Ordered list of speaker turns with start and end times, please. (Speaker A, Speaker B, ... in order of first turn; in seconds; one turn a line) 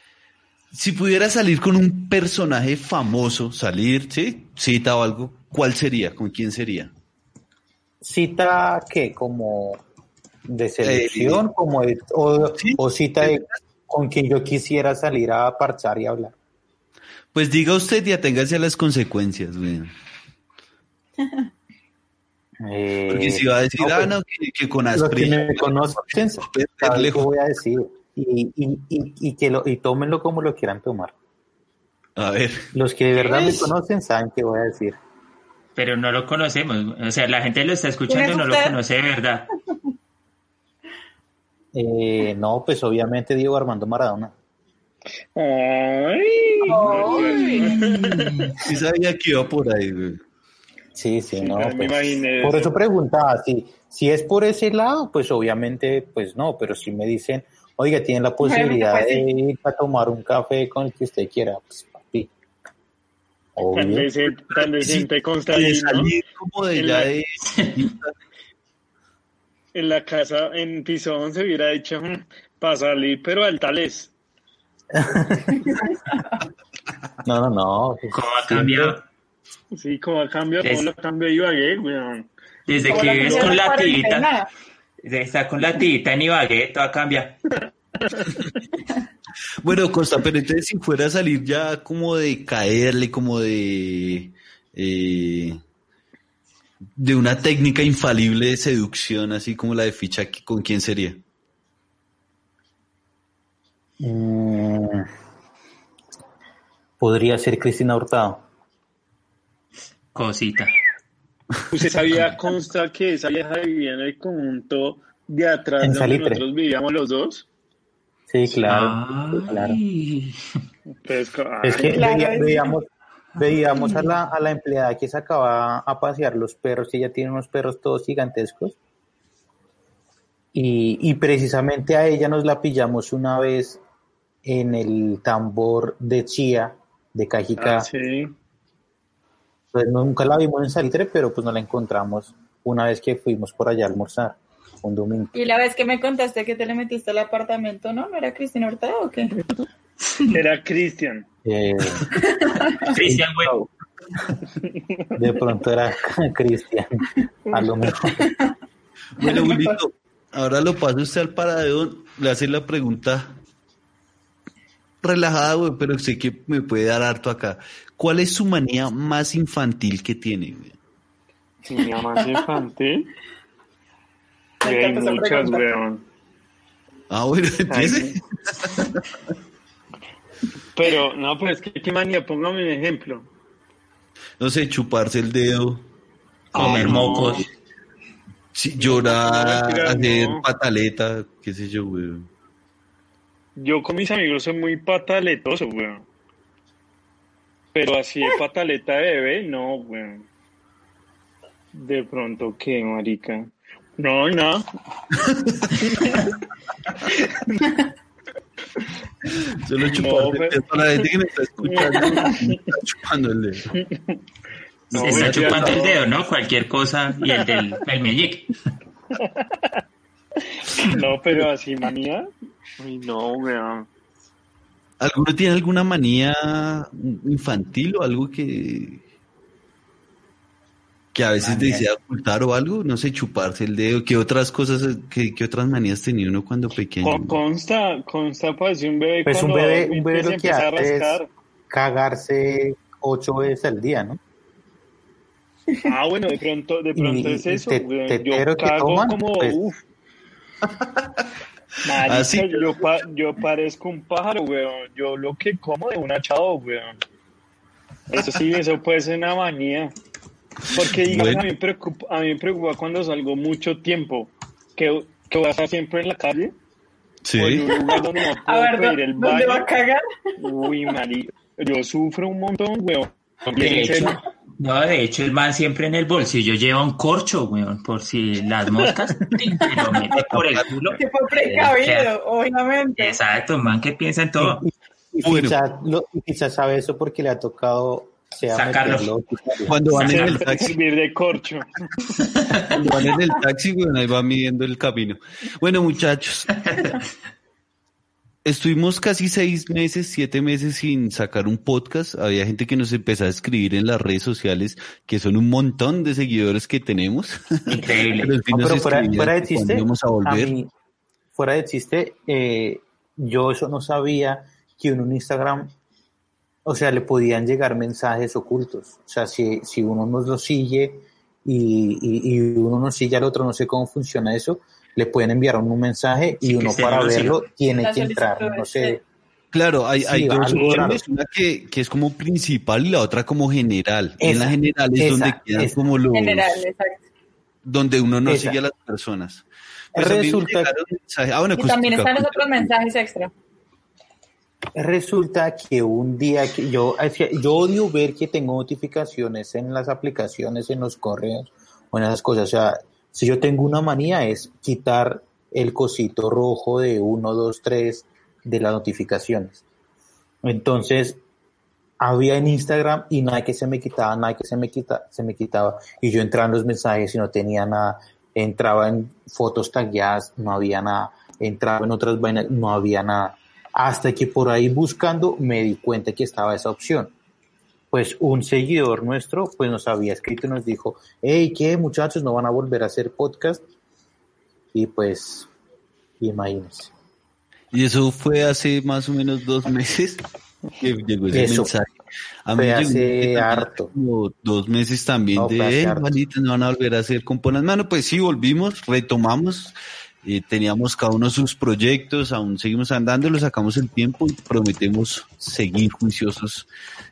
Speaker A: 0.7-6.9
Speaker B: 8.0-9.8
Speaker B: 10.4-16.3
Speaker A: 10.8-11.4
Speaker A: 12.6-13.6
Speaker A: 17.3-19.9
Speaker C: 21.2-21.5
Speaker B: 22.6-24.1
Speaker A: 23.1-25.8
Speaker B: 24.9-31.1
Speaker A: 26.4-27.3
Speaker A: 32.2-32.7
Speaker B: 32.7-35.0
Speaker D: 35.8-39.5
Speaker C: 38.1-38.8
Speaker B: 41.7-44.3
Speaker E: 45.4-48.6
Speaker C: 46.6-47.9
Speaker A: 48.5-50.2
Speaker B: 50.9-62.3
Speaker E: 51.3-52.7
Speaker C: 58.4-59.2
Speaker B: 63.5-64.1
Speaker E: 63.7-66.1
Speaker A: 64.6-68.1
Speaker E: 66.7-67.1
Speaker D: 67.5-67.9
Speaker E: 69.7-74.1
Speaker B: 74.9-75.7
Speaker C: 75.6-76.4
Speaker B: 77.2-79.0
Speaker D: 78.1-79.0
Speaker E: 79.7-82.3
Speaker D: 80.6-80.9
Speaker D: 82.7-84.3
Speaker E: 82.9-83.5
Speaker C: 82.9-84.5
Speaker D: 85.0-87.4
Speaker E: 87.5-88.4
Speaker A: 89.6-95.6
Speaker A: 97.0-101.2
Speaker B: 104.0-105.0
Speaker B: 107.0-108.4
Speaker D: 110.1-110.7
Speaker E: 111.7-117.5
Speaker B: 115.8-116.4
Speaker B: 118.3-119.8
Speaker D: 118.5-120.4
Speaker E: 121.0-122.2
Speaker B: 121.6-128.8
Speaker C: 121.7-122.7
Speaker B: 130.5-133.8
Speaker B: 134.4-137.9
Speaker E: 137.6-138.3
Speaker B: 139.7-145.3
Speaker C: 145.3-149.3
Speaker E: 150.3-151.2
Speaker B: 151.4-152.1
Speaker C: 152.2-152.9
Speaker D: 152.9-153.5
Speaker B: 153.0-153.7
Speaker B: 155.2-158.2
Speaker E: 157.4-157.9
Speaker C: 158.2-158.5
Speaker A: 159.2-163.3
Speaker C: 159.2-159.8
Speaker A: 165.0-170.8
Speaker E: 171.7-173.1
Speaker C: 172.2-172.4
Speaker C: 174.6-175.7
Speaker E: 174.6-176.0
Speaker A: 177.1-179.0
Speaker E: 177.7-178.2
Speaker E: 180.7-183.3
Speaker A: 184.4-185.8
Speaker D: 186.5-187.4
Speaker A: 186.5-187.5
Speaker E: 186.6-187.3
Speaker A: 188.5-192.3
Speaker E: 188.8-190.4
Speaker E: 193.6-196.0
Speaker E: 197.7-200.2
Speaker E: 201.7-204.6
Speaker A: 205.2-205.7
Speaker A: 209.6-213.7
Speaker E: 209.9-210.6
Speaker E: 211.6-212.7
Speaker E: 213.8-214.1
Speaker A: 214.9-215.9
Speaker E: 214.9-216.0
Speaker D: 214.9-218.5
Speaker E: 219.2-219.8
Speaker E: 220.5-222.3
Speaker E: 222.8-223.9
Speaker A: 225.0-229.0
Speaker A: 231.1-237.3
Speaker D: 231.4-231.9
Speaker E: 237.0-241.3
Speaker B: 239.2-244.2
Speaker E: 245.8-249.8
Speaker B: 246.9-249.6
Speaker E: 251.8-257.0
Speaker A: 251.9-252.7
Speaker E: 258.1-259.9
Speaker E: 260.7-266.5
Speaker A: 260.8-261.5
Speaker A: 267.2-267.7
Speaker E: 267.4-269.7
Speaker C: 268.4-270.0
Speaker E: 270.4-274.2
Speaker D: 273.6-282.1
Speaker A: 280.1-280.7
Speaker C: 281.0-283.2
Speaker D: 283.0-284.6
Speaker B: 284.4-289.8
Speaker A: 285.2-285.6
Speaker D: 288.5-289.1
Speaker A: 289.6-290.8
Speaker D: 289.9-290.4
Speaker E: 290.0-292.1
Speaker D: 292.4-292.7
Speaker A: 292.7-296.9
Speaker D: 296.6-297.0
Speaker A: 298.4-310.5
Speaker D: 307.7-308.3
Speaker B: 308.5-310.7
Speaker B: 311.3-315.7
Speaker B: 316.6-329.0
Speaker D: 326.4-327.4
Speaker C: 327.7-329.0
Speaker A: 329.5-336.6
Speaker B: 330.0-331.0
Speaker B: 334.2-335.7
Speaker C: 336.1-337.0
Speaker A: 337.6-342.7
Speaker B: 338.2-338.6
Speaker B: 339.9-340.7
Speaker C: 341.6-343.3
Speaker B: 344.7-359.6
Speaker B: 360.4-361.2
Speaker B: 362.0-377.1
Speaker B: 377.9-383.6
Speaker B: 384.7-385.5
Speaker B: 386.2-386.9
Speaker A: 387.7-390.2
Speaker A: 390.8-406.7
Speaker B: 391.3-391.7
Speaker B: 392.6-393.9
Speaker B: 395.4-396.2